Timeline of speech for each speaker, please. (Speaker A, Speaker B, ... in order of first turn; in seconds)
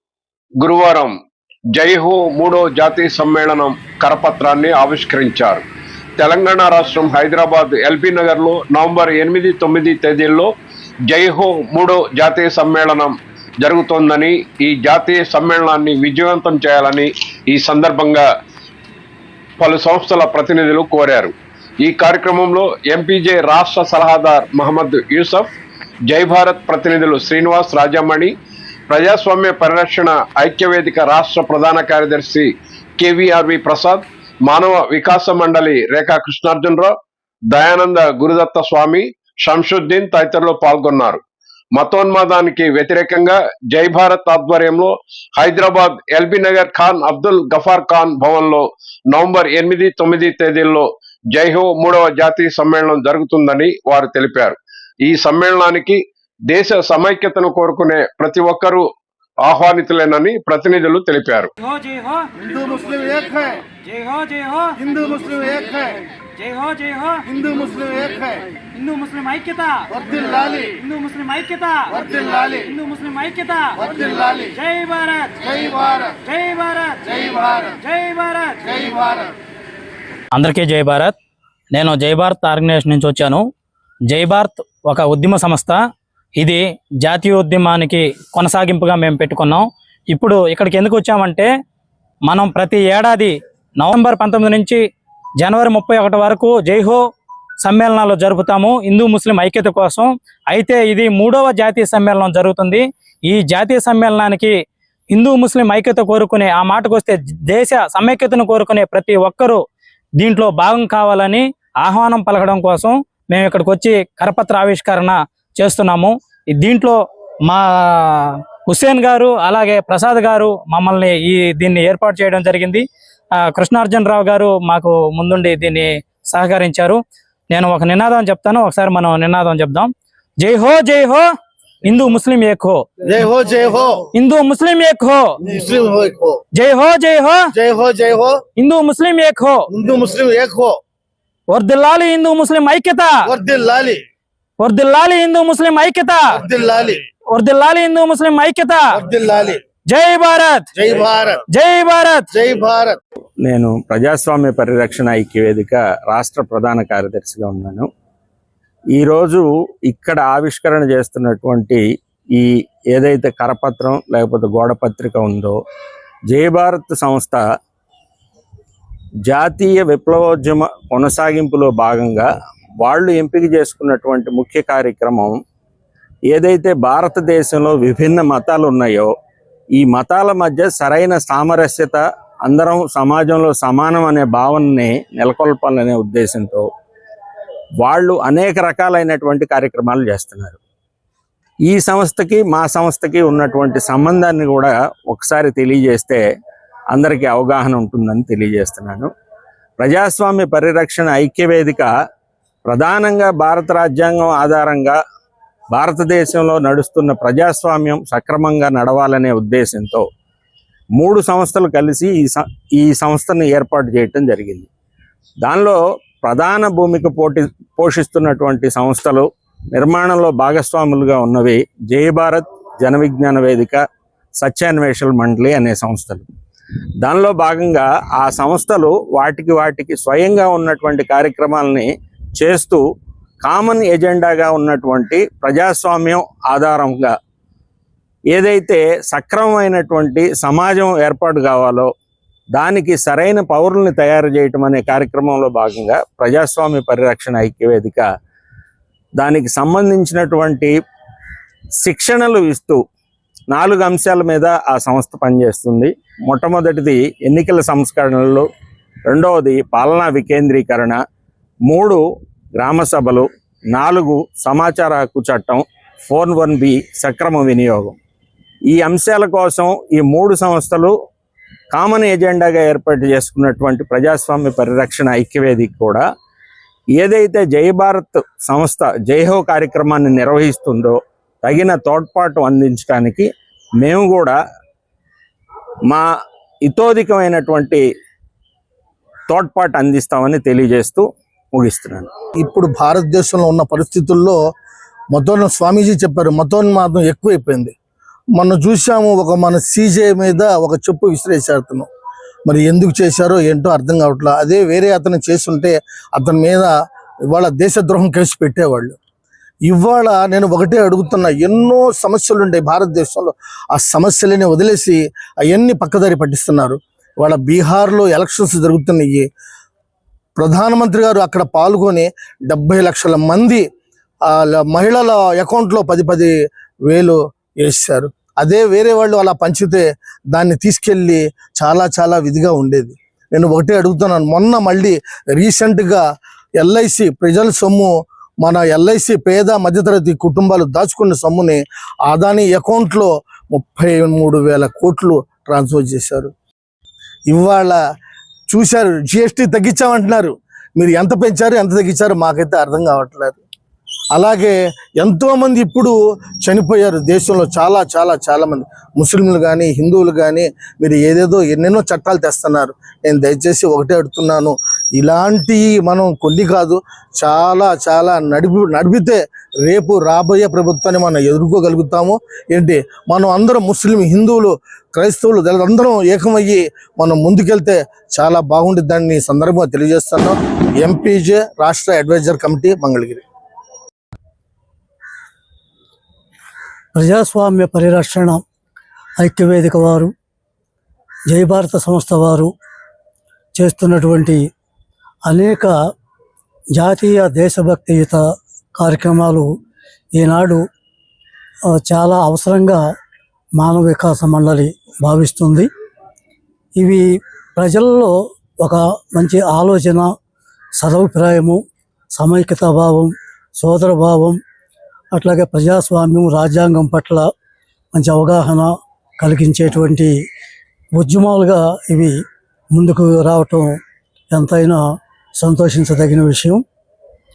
Speaker A: 0.6-1.1, 1.7-5.6, 6.2-10.5, 11.1-18.2, 19.6-25.5, 26.1-28.4, 28.9-36.9, 37.5-41.2, 41.7-58.9, 59.4-61.5
Speaker B: 61.6-62.3, 63.8-64.8, 66.3-79.2, 80.3-81.2, 81.7-83.4, 84.1-85.8, 86.4-91.5, 92.2-94.8, 95.4-97.0, 97.6-104.5, 105.1-109.6, 110.2-122.8, 123.4-131.2, 131.8-132.8, 134.1-135.3, 136.5-137.4, 138.6-139.7, 141.5-143.2, 144.6-146.3, 147.3-148.8, 149.9-150.7, 151.5-152.3
Speaker C: 62.4-63.6, 64.8-65.8, 133.0-134.1, 135.4-136.4, 137.5-138.4, 139.7-140.7, 143.2-144.0, 146.3-147.0, 148.9-149.6, 150.8-151.4, 152.3-153.0, 292.4-294.4, 295.1-297.7, 298.3-301.9, 302.4-306.7, 307.3-309.0, 309.6-319.2, 320.4-323.6, 324.3-326.3, 326.9-336.0, 336.6-346.3, 347.3-347.8, 348.5-353.4, 354.1-383.2
Speaker D: 153.4-157.9, 158.9-161.8, 162.3-165.6, 166.3-167.4, 169.2-172.3, 172.8-175.4, 176.3-179.1, 179.8-186.7, 187.8-190.6, 191.7-196.2, 196.9-199.1, 199.8-201.9, 202.7-204.9, 205.7-210.0, 211.0-214.7, 215.4-223.8, 224.4-226.2, 227.0-232.8, 233.4-237.1, 238.3-241.9, 242.5-248.0, 249.2-250.7, 251.8-252.8, 253.5-258.5, 259.1-261.0, 261.7-262.0, 262.6-268.0, 268.7-270.9, 271.7-276.0, 277.0-283.3, 283.8-284.4, 286.6-287.8, 289.3-292.1
Speaker E: 386.9-388.4, 389.2-390.1, 391.3-392.5, 393.5-394.4, 395.2-395.7, 396.8-398.2, 398.8-399.5, 400.1-400.6, 401.7-402.8, 403.6-405.7, 406.8-407.0, 407.6-410.1, 410.8-411.6, 412.1-414.4, 415.1-417.3, 417.9-420.1, 420.9-422.2, 422.7-423.8, 424.3-424.8, 425.4-426.6